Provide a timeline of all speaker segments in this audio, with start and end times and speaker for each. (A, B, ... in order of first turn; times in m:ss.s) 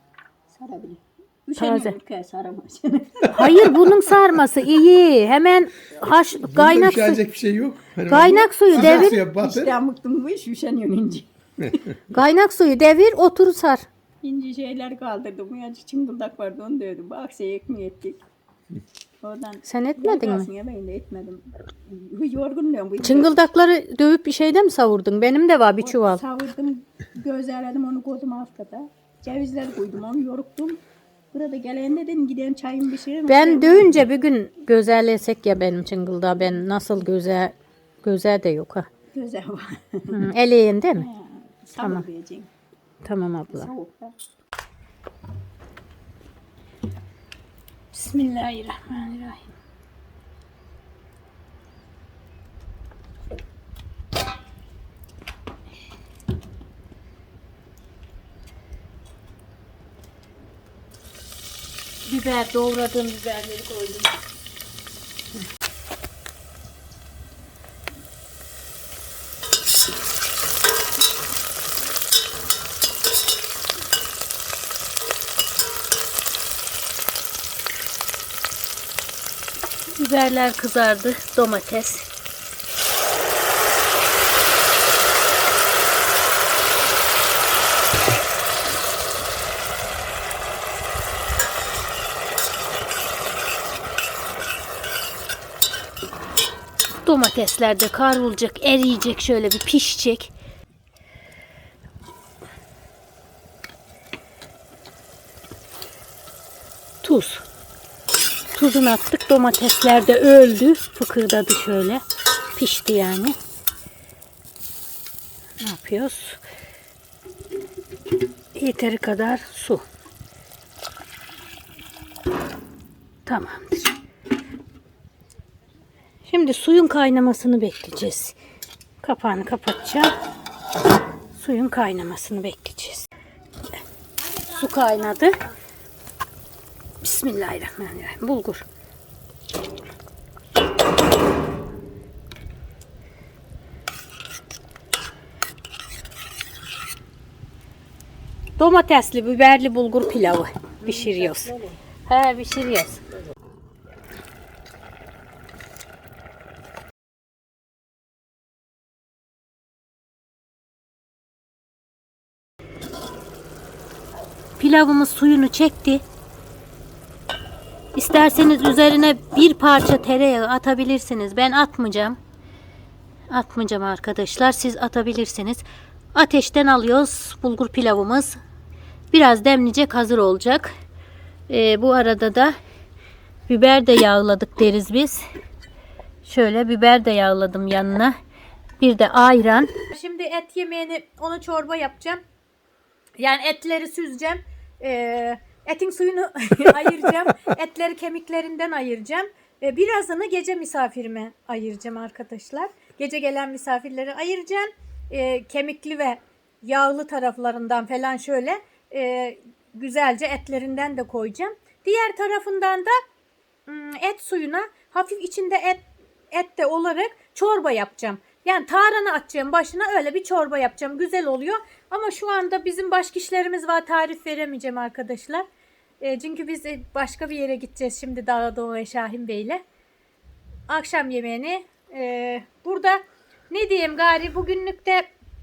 0:00.5-0:03.7 A
0:01.6-0:02.0 B
0:03.3-0:07.2 B
0:06.3-0:09.7 C
0:08.1-0:09.2 B
0:08.7-0:11.3 A
0:12.1-0:13.8 B
0:14.2-0:18.2 A
0:19.2-0:23.4 A
0:19.6-0:20.5 B
0:23.0-0:26.2 B
0:25.8-0:34.0 A
0:33.3-0:38.9 B
0:39.1-0:40.2 A
0:40.1-0:41.1 B
0:40.9-0:42.5 A
0:41.8-0:42.1 B
0:43.0-0:43.7 B
0:43.5-0:44.1 A
0:47.9-0:49.5 B
1:02.1-1:04.1 B
1:19.9-1:22.1 B
1:37.0-1:40.3 B
1:47.0-1:47.4 B
1:48.5-1:52.0 B
1:52.5-1:53.4 B
1:55.6-1:56.4 B
1:58.5-1:59.8 B
2:03.2-2:03.9 B
2:06.3-2:08.4 B
2:09.0-2:10.1 B
2:11.3-2:13.1 B
2:14.4-2:15.4 B
2:17.0-2:18.6 B
2:28.6-2:33.0 B
2:30.9-2:31.7 A
2:44.6-2:46.0 B
2:48.0-2:52.2 B
2:53.3-2:58.4 B
2:59.1-3:00.7 B
3:01.5-3:02.6 B
3:03.5-3:05.2 B
3:06.2-3:08.2 B
3:08.8-3:12.2 B
3:13.2-3:33.0 B
3:33.7-3:45.4 B
3:46.0-3:49.6 B
3:50.7-3:55.0 B